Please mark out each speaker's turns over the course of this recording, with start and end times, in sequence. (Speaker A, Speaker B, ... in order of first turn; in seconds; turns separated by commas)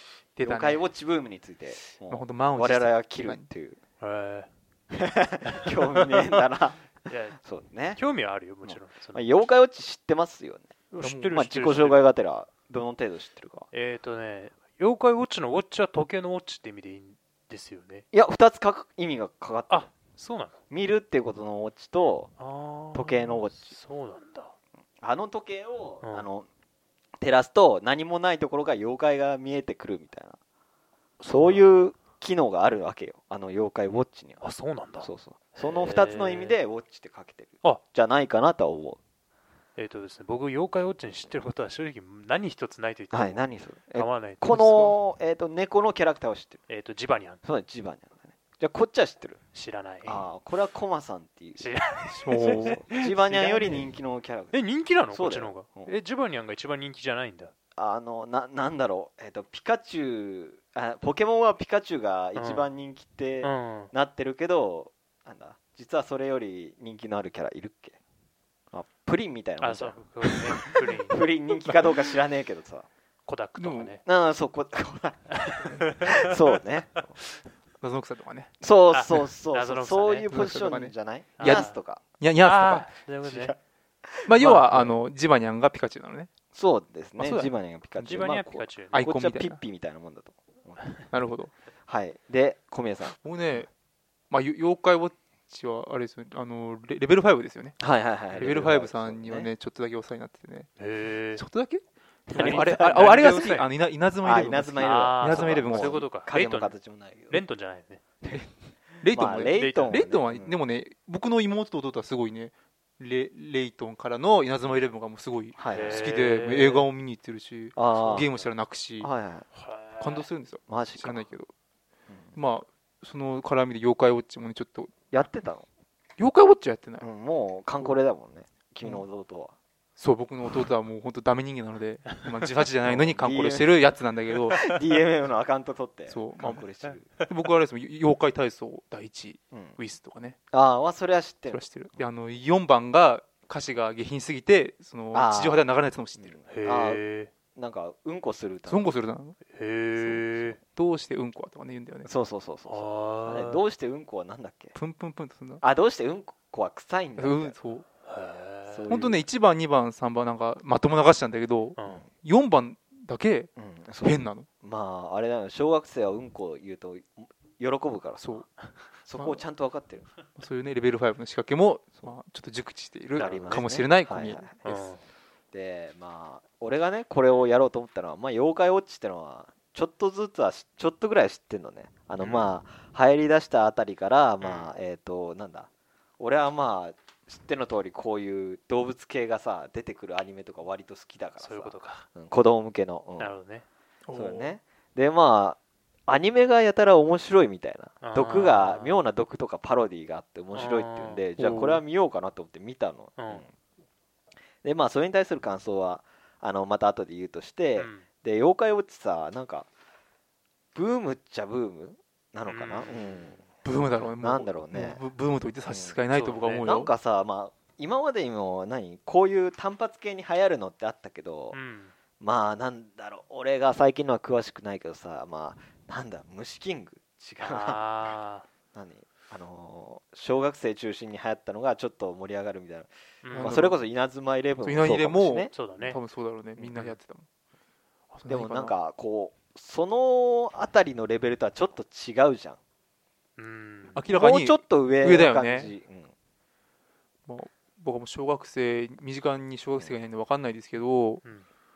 Speaker A: 0.3-0.8, Speaker B: 0.4-3.8, Speaker A: 2.0-3.5, Speaker C: 4.0-4.5, Speaker B: 4.9-8.0, Speaker C: 5.5-6.2, Speaker C: 7.1-7.4, Speaker C: 8.0-9.4, Speaker B: 8.6-10.7, Speaker C: 10.9-12.0, Speaker A: 11.0-11.3, Speaker B: 11.3-13.7, Speaker C: 13.7-18.1, Speaker B: 18.1-19.9, Speaker C: 19.7-20.6, Speaker B: 20.7-22.3, Speaker C: 22.4-24.5, Speaker B: 22.9-23.7, Speaker B: 25.0-26.5, Speaker C: 26.0-26.3, Speaker B: 27.2-30.4, Speaker C: 31.2-31.7, Speaker B: 31.2-34.5, Speaker C: 34.4-36.5, Speaker B: 35.0-39.0, Speaker C: 39.8-44.9, Speaker B: 43.1-46.6, Speaker A: 44.5-44.9, Speaker C: 46.7-47.4, Speaker B: 47.5-49.4, Speaker C: 49.5-50.3, Speaker B: 50.0-51.7, Speaker C: 51.6-53.9, Speaker A: 52.1-52.8, Speaker B: 52.4-54.6, Speaker C: 54.5-57.5, Speaker B: 55.1-55.9, Speaker B: 57.8-68.0, Speaker C: 62.4-62.7, Speaker C: 63.4-63.9, Speaker B: 68.7-72.8, Speaker C: 69.6-71.9, Speaker C: 73.2-74.0, Speaker A: 73.5-74.0, Speaker B: 74.0-77.1, Speaker C: 75.4-76.2, Speaker A: 77.8-78.5, Speaker B: 78.6-82.0, Speaker C: 78.9-80.3, Speaker A: 80.3-82.9, Speaker C: 81.4-81.8, Speaker C: 82.4-83.5, Speaker B: 83.2-85.0, Speaker A: 84.2-86.3, Speaker B: 86.5-91.0, Speaker A: 87.2-88.2, Speaker C: 88.0-89.0, Speaker A: 88.9-89.6, Speaker A: 91.1-91.5, Speaker B: 91.8-93.2, Speaker A: 93.2-93.7, Speaker A: 94.3-97.8, Speaker B: 97.8-99.5, Speaker C: 98.3-98.6, Speaker A: 98.4-100.7, Speaker C: 100.8-101.4, Speaker A: 101.3-106.0, Speaker B: 102.3-103.6, Speaker C: 102.3-103.7, Speaker B: 104.2-107.4, Speaker C: 104.8-106.8, Speaker C: 107.3-108.0, Speaker B: 108.2-108.5, Speaker B: 109.0-110.6, Speaker A: 109.0-119.1, Speaker C: 109.4-110.0, Speaker B: 115.5-116.0, Speaker C: 115.7-116.9, Speaker B: 117.7-118.5, Speaker C: 118.0-118.2, Speaker B: 119.0-119.5, Speaker C: 119.5-120.3, Speaker A: 120.0-121.5, Speaker B: 120.7-121.3, Speaker B: 122.1-122.3, Speaker A: 122.3-125.2, Speaker B: 125.1-125.6, Speaker A: 126.2-127.1, Speaker B: 127.0-129.5, Speaker A: 130.0-134.6, Speaker B: 132.8-133.8, Speaker B: 134.6-137.1, Speaker A: 136.1-140.4, Speaker B: 139.5-139.8, Speaker B: 140.5-142.0, Speaker A: 141.5-146.4, Speaker B: 145.1-147.0, Speaker C: 146.5-147.3, Speaker B: 147.5-148.9, Speaker A: 148.7-149.4, Speaker C: 149.5-150.6, Speaker A: 150.0-152.1, Speaker B: 152.0-154.8, Speaker C: 152.7-153.6, Speaker A: 154.8-155.6, Speaker B: 155.6-157.6, Speaker A: 157.2-157.8, Speaker C: 158.0-158.9, Speaker B: 158.7-159.2, Speaker A: 158.9-163.5, Speaker C: 161.8-162.0, Speaker B: 163.6-168.4, Speaker A: 164.0-164.5, Speaker A: 168.2-168.5, Speaker B: 169.0-170.1, Speaker A: 170.3-174.8, Speaker C: 173.1-173.6, Speaker B: 173.2-174.6, Speaker C: 174.6-175.0, Speaker B: 175.5-193.3, Speaker C: 182.2-182.5, Speaker C: 184.4-184.7, Speaker C: 191.4-192.1, Speaker C: 193.2-193.7, Speaker A: 194.1-194.5, Speaker B: 194.1-203.5, Speaker C: 198.0-199.0, Speaker C: 200.5-201.2, Speaker A: 201.4-201.8, Speaker C: 203.2-203.4, Speaker B: 204.6-209.7, Speaker C: 207.8-208.1, Speaker B: 210.8-213.4, Speaker C: 212.5-213.2, Speaker A: 213.6-216.9, Speaker B: 214.2-215.0, Speaker B: 215.7-216.0, Speaker C: 216.1-216.7, Speaker B: 216.6-221.6, Speaker C: 221.5-221.9, Speaker B: 222.2-227.8, Speaker C: 227.4-228.4, Speaker B: 228.7-235.5, Speaker C: 233.2-233.6, Speaker A: 233.3-233.8, Speaker A: 234.6-237.2, Speaker C: 235.5-236.0, Speaker C: 236.6-237.0, Speaker A: 238.1-238.8, Speaker B: 238.3-242.6, Speaker C: 243.4-244.1, Speaker A: 243.9-245.7, Speaker B: 244.1-246.1, Speaker A: 247.3-251.2